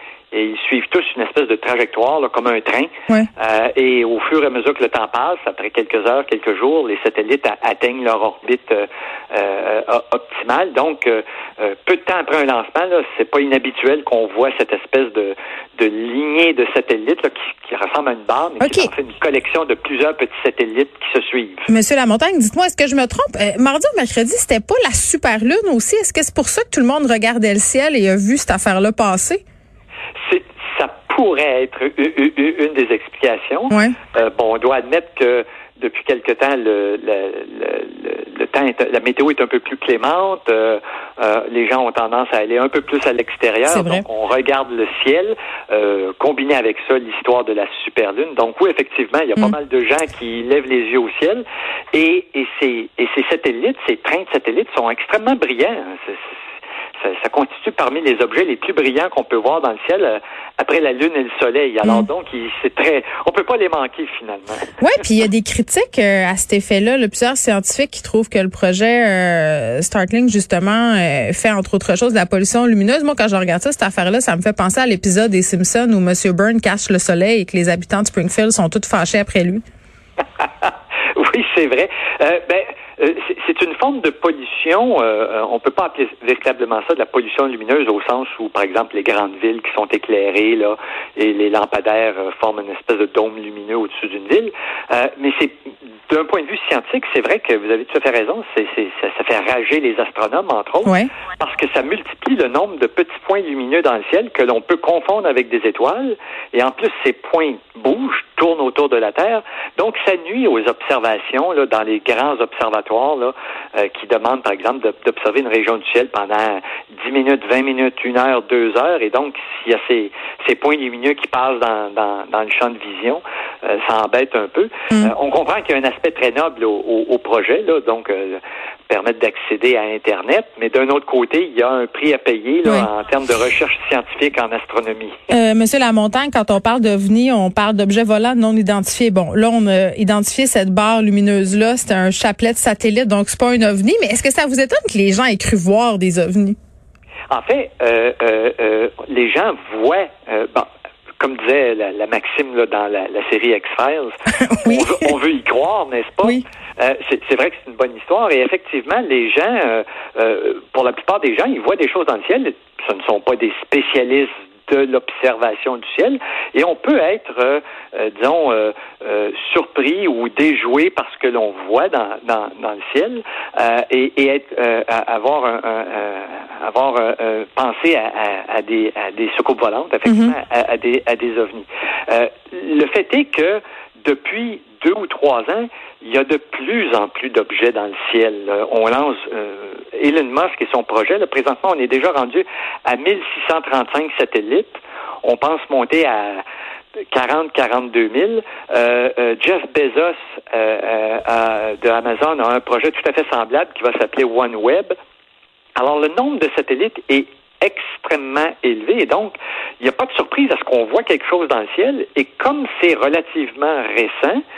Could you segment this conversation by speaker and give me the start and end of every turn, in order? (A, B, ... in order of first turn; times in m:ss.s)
0:00.3-0:21.7 A
0:18.6-0:18.9 B
0:21.7-0:29.4 B
0:30.2-0:56.3 A
0:33.7-0:34.0 B
0:43.7-0:44.0 B
0:57.0-1:04.8 A
1:01.8-1:02.1 B
1:04.8-1:19.6 B
1:20.4-1:35.6 A
1:36.1-2:15.2 A
1:40.8-1:41.1 B
2:15.3-2:26.6 B
2:27.3-3:16.4 A
2:34.4-2:35.1 B
3:00.0-3:00.4 B
3:17.1-3:24.9 A
3:25.8-3:34.4 A